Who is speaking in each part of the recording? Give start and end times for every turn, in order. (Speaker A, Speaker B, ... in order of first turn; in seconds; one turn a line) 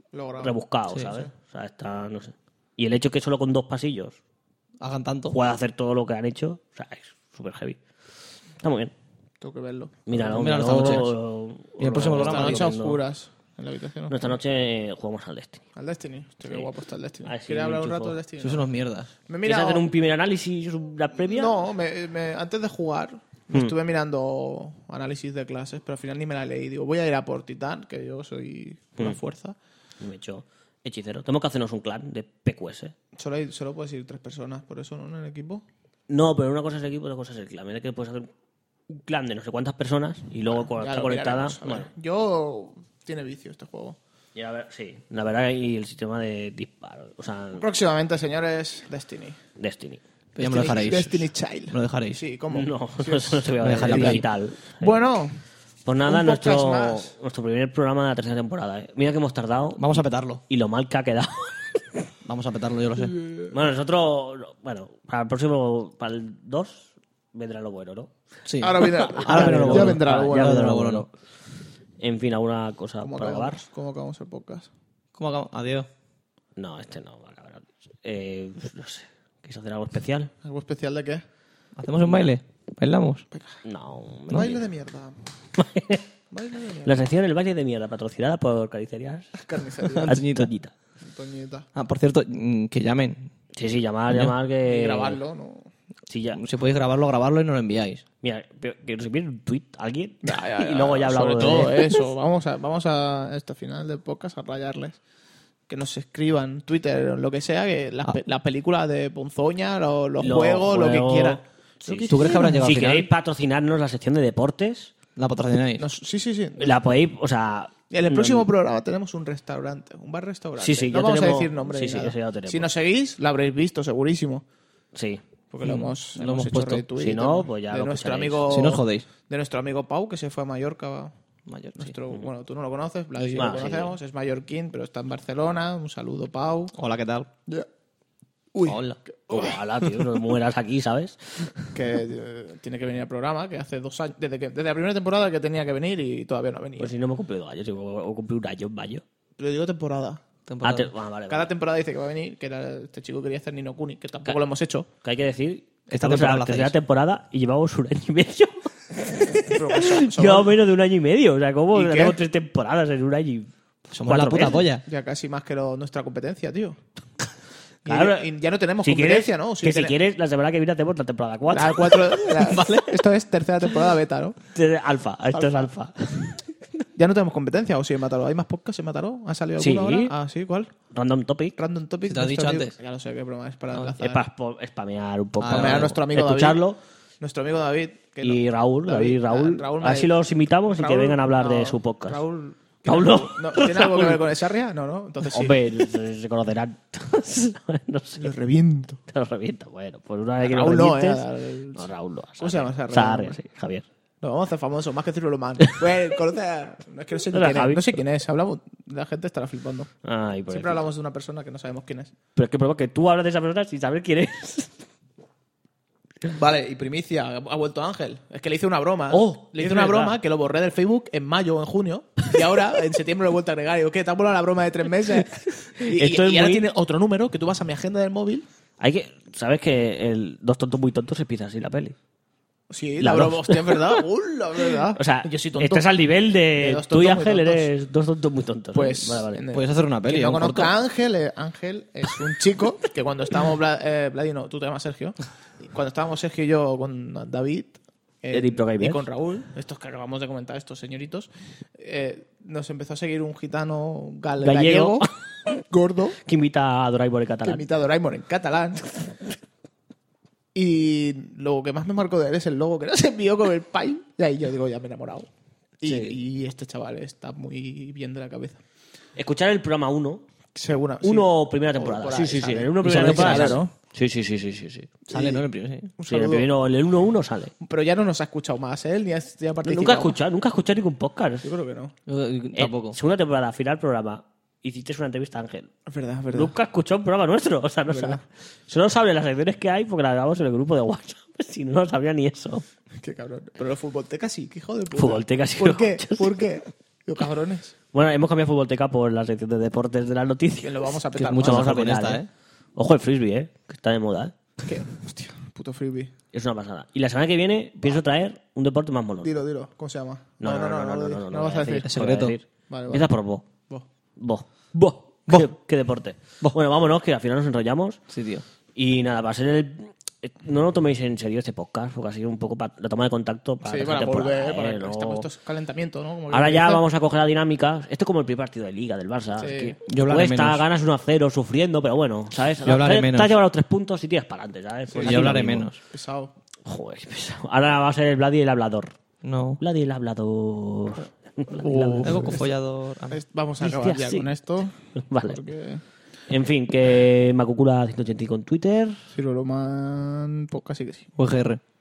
Speaker A: 0.1-0.6
Speaker B: 0.4-4.2
Speaker C: 4.8-5.3
Speaker B: 5.3-7.8
Speaker B: 8.6-8.9
Speaker A: 9.4-10.0
Speaker B: 10.1-13.0
Speaker C: 10.1-11.2
Speaker C: 11.8-12.8
Speaker A: 12.1-14.4
Speaker B: 14.1-15.6
Speaker A: 15.8-18.7
Speaker B: 16.4-16.7
Speaker B: 17.2-18.2
Speaker C: 18.4-19.1
Speaker A: 19.3-19.9
Speaker B: 19.4-21.5
Speaker A: 21.2-29.6
Speaker B: 30.0-32.9
Speaker A: 33.2-35.6
Speaker B: 36.1-38.3
Speaker B: 38.9-41.9
Speaker A: 40.6-44.0
Speaker B: 44.4-47.6
Speaker A: 47.5-49.4
Speaker B: 49.6-50.0
Speaker C: 50.4-52.2
Speaker A: 50.4-55.4
Speaker B: 52.5-55.0
Speaker C: 53.6-54.3
Speaker B: 55.9-59.9
Speaker A: 56.0-57.1
Speaker C: 59.8-60.4
Speaker B: 60.5-61.8
Speaker C: 62.2-63.2
Speaker A: 63.2-63.5
Speaker B: 63.5-68.1
Speaker C: 68.5-71.1
Speaker A: 68.6-70.8
Speaker B: 68.8-71.1
Speaker B: 72.0-73.6
Speaker A: 73.0-74.7
Speaker C: 75.2-75.9
Speaker B: 76.6-80.3
Speaker A: 80.4-81.2
Speaker C: 81.8-83.2
Speaker A: 83.3-83.6
Speaker B: 83.6-84.7
Speaker A: 84.3-85.2
Speaker B: 85.6-86.0
Speaker A: 86.3-87.0
Speaker B: 86.8-89.4
Speaker A: 89.4-90.2
Speaker C: 89.9-90.5
Speaker B: 90.1-90.7
Speaker A: 91.0-91.7
Speaker C: 91.8-93.3
Speaker B: 93.5-95.2
Speaker A: 94.6-95.7
Speaker B: 96.1-96.4
Speaker C: 96.3-98.0
Speaker B: 98.2-101.9
Speaker A: 100.2-105.0
Speaker C: 101.4-101.8
Speaker A: 105.7-112.6
Speaker B: 110.2-114.9
Speaker C: 112.1-113.1
Speaker C: 115.2-115.9
Speaker A: 115.8-116.8
Speaker B: 116.6-118.5
Speaker A: 117.9-124.5
Speaker B: 120.6-122.7
Speaker B: 124.9-125.2
Speaker A: 125.5-131.1
Speaker C: 125.6-126.9
Speaker B: 127.0-128.8
Speaker C: 128.5-129.1
Speaker C: 131.5-132.0
Speaker A: 131.8-136.7
Speaker B: 133.4-134.0
Speaker C: 136.7-137.3
Speaker A: 138.5-139.6
Speaker C: 138.7-139.0
Speaker B: 139.3-141.7
Speaker A: 141.7-146.9
Speaker B: 146.8-149.0
Speaker A: 149.4-150.2
Speaker C: 150.5-150.9
Speaker B: 150.6-151.5
Speaker A: 151.3-154.9
Speaker B: 155.0-163.5
Speaker C: 155.9-156.8
Speaker A: 159.3-160.5
Speaker A: 161.7-162.2
Speaker C: 163.9-164.8
Speaker B: 164.0-164.6
Speaker A: 164.8-166.8
Speaker A: 167.8-169.9
Speaker B: 167.9-168.3
Speaker B: 168.8-172.2
Speaker A: 171.5-174.4
Speaker C: 172.3-173.0
Speaker B: 174.5-176.4
Speaker A: 175.3-175.7
Speaker A: 176.9-180.7
Speaker B: 179.6-180.1
Speaker B: 180.9-181.6
Speaker A: 181.6-184.2
Speaker C: 182.1-182.8
Speaker B: 184.0-186.8
Speaker C: 185.4-185.9
Speaker A: 185.5-186.6
Speaker A: 187.2-190.1
Speaker B: 188.2-192.2
Speaker A: 190.7-195.7
Speaker B: 192.9-194.2
Speaker B: 195.2-198.3
Speaker A: 198.2-199.0
Speaker B: 199.1-201.2
Speaker A: 200.4-201.9
Speaker B: 201.8-203.9
Speaker A: 202.4-203.4
Speaker A: 204.2-209.9
Speaker B: 207.3-207.9
Speaker B: 210.1-210.8
Speaker A: 210.5-212.1
Speaker B: 212.4-214.7
Speaker A: 216.3-228.4
Speaker B: 219.1-220.2
Speaker B: 225.8-226.7
Speaker B: 228.8-231.9
Speaker A: 232.7-235.9
Speaker B: 233.0-234.0
Speaker B: 234.9-239.4
Speaker A: 236.6-237.7
Speaker A: 238.7-255.1
Speaker C: 239.5-240.7
Speaker B: 248.3-249.1
Speaker B: 254.4-255.1
Speaker A: 255.7-256.2
Speaker B: 256.2-257.6
Speaker A: 257.4-258.9
Speaker A: 260.5-265.3
Speaker A: 265.8-268.6
Speaker B: 265.8-266.2
Speaker B: 269.2-270.2
Speaker A: 270.6-273.7
Speaker B: 271.0-274.9
Speaker C: 272.8-273.6
Speaker A: 275.1-276.5
Speaker C: 275.1-275.9
Speaker B: 276.1-277.5
Speaker A: 277.6-280.2
Speaker B: 279.6-281.5
Speaker A: 281.4-281.9
Speaker C: 282.1-283.0
Speaker B: 282.6-285.7
Speaker A: 285.9-286.5
Speaker B: 286.3-292.6
Speaker A: 287.9-288.2
Speaker A: 293.0-297.7
Speaker B: 294.9-296.4
Speaker B: 297.9-302.2
Speaker A: 300.6-301.8
Speaker C: 301.2-302.3
Speaker B: 302.8-304.4
Speaker A: 304.6-306.1
Speaker B: 306.3-309.3
Speaker A: 309.2-311.9
Speaker B: 310.4-313.4
Speaker C: 311.8-312.4
Speaker A: 312.7-313.1
Speaker B: 314.2-318.0
Speaker C: 318.1-318.4
Speaker B: 318.8-325.3
Speaker A: 323.6-326.8
Speaker B: 326.3-335.7
Speaker A: 329.4-329.8
Speaker C: 329.9-330.6
Speaker C: 332.6-333.4
Speaker A: 334.9-336.3
Speaker C: 335.0-335.8
Speaker B: 336.6-338.9
Speaker C: 339.2-339.6
Speaker B: 339.6-342.4
Speaker C: 341.6-343.2
Speaker A: 341.7-342.5
Speaker A: 343.1-345.8
Speaker B: 343.6-344.3
Speaker B: 344.9-345.4
Speaker B: 346.3-349.0
Speaker A: 349.1-351.1
Speaker C: 351.2-351.6